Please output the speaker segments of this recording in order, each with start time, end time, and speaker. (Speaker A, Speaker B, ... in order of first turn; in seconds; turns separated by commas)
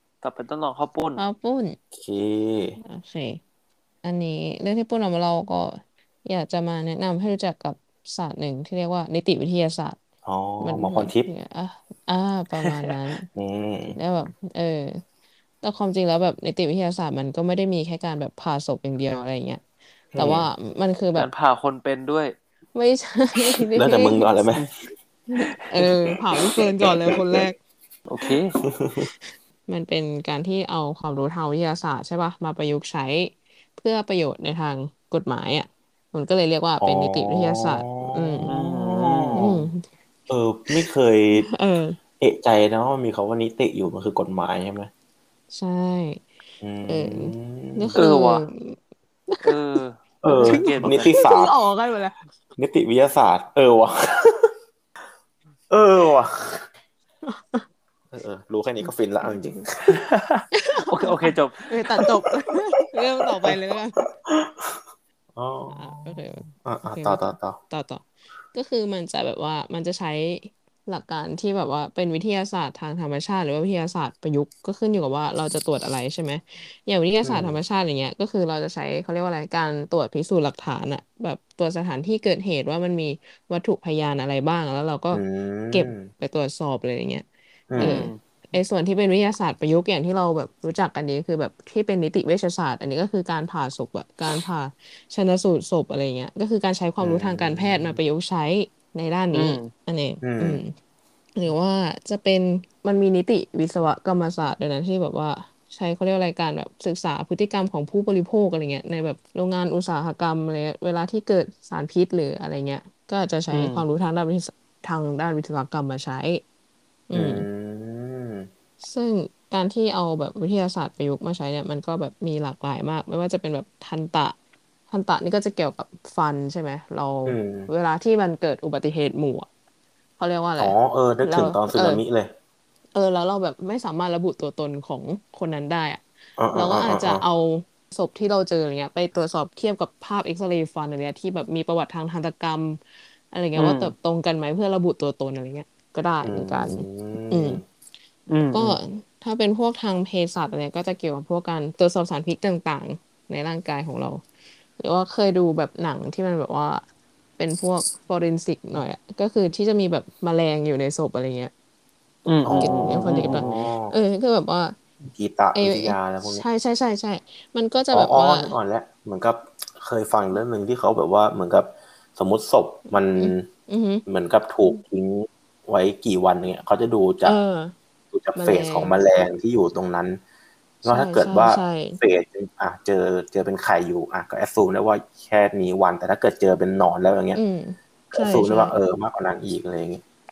Speaker A: 0.2-1.2, Speaker B: 1.2-1.8, Speaker C: 1.9-2.8, Speaker B: 2.8-3.4, Speaker B: 4.0-10.0, Speaker C: 10.2-11.3, Speaker B: 10.6-13.3, Speaker C: 12.6-14.0, Speaker B: 13.9-15.0, Speaker B: 15.6-19.6, Speaker C: 20.1-20.5, Speaker B: 20.1-21.3, Speaker A: 21.1-22.3, Speaker B: 22.7-24.4, Speaker C: 23.7-24.7, Speaker B: 25.3-27.6, Speaker C: 26.5-27.5, Speaker A: 28.1-28.5, Speaker C: 28.2-29.1, Speaker B: 29.7-39.8, Speaker C: 36.8-39.7, Speaker A: 38.5-39.5, Speaker C: 40.3-41.5, Speaker B: 41.3-42.0, Speaker C: 42.2-44.9, Speaker B: 45.5-46.2, Speaker C: 46.6-48.0, Speaker B: 46.9-48.8, Speaker A: 48.0-48.5, Speaker B: 49.3-49.5, Speaker A: 49.4-51.2, Speaker C: 50.2-51.5, Speaker B: 50.3-52.2, Speaker C: 52.6-54.5, Speaker C: 55.7-56.7, Speaker B: 57.2-57.6, Speaker C: 58.1-60.0, Speaker A: 59.9-61.6, Speaker B: 60.5-64.0, Speaker C: 61.8-62.1, Speaker C: 63.5-64.8, Speaker C: 65.3-67.6, Speaker B: 65.7-100.7, Speaker C: 77.2-77.6, Speaker C: 85.1-86.1, Speaker C: 87.7-88.0, Speaker A: 87.8-88.2, Speaker C: 97.0-98.0, Speaker A: 99.3-99.7, Speaker C: 100.2-100.6, Speaker B: 101.3-116.4, Speaker A: 113.5-113.8, Speaker B: 117.1-117.5, Speaker C: 117.1-118.5, Speaker B: 118.8-124.3, Speaker B: 124.9-129.5, Speaker C: 127.2-127.7, Speaker B: 130.2-132.0, Speaker C: 130.6-132.3, Speaker B: 132.9-136.0, Speaker C: 136.4-137.2, Speaker B: 136.5-147.6, Speaker A: 143.6-143.9, Speaker C: 146.2-147.6, Speaker A: 148.3-148.8, Speaker B: 148.5-154.2, Speaker B: 154.8-156.8, Speaker B: 157.4-161.5, Speaker A: 162.2-163.7, Speaker C: 162.4-163.9, Speaker B: 162.6-164.8, Speaker C: 165.1-166.4, Speaker B: 165.5-168.6, Speaker C: 167.9-173.5, Speaker B: 173.2-174.0, Speaker C: 174.1-177.4, Speaker B: 177.2-177.7, Speaker C: 178.1-180.2, Speaker B: 178.3-179.0, Speaker C: 180.8-187.4, Speaker B: 180.8-182.0, Speaker B: 187.3-188.8, Speaker C: 188.1-190.0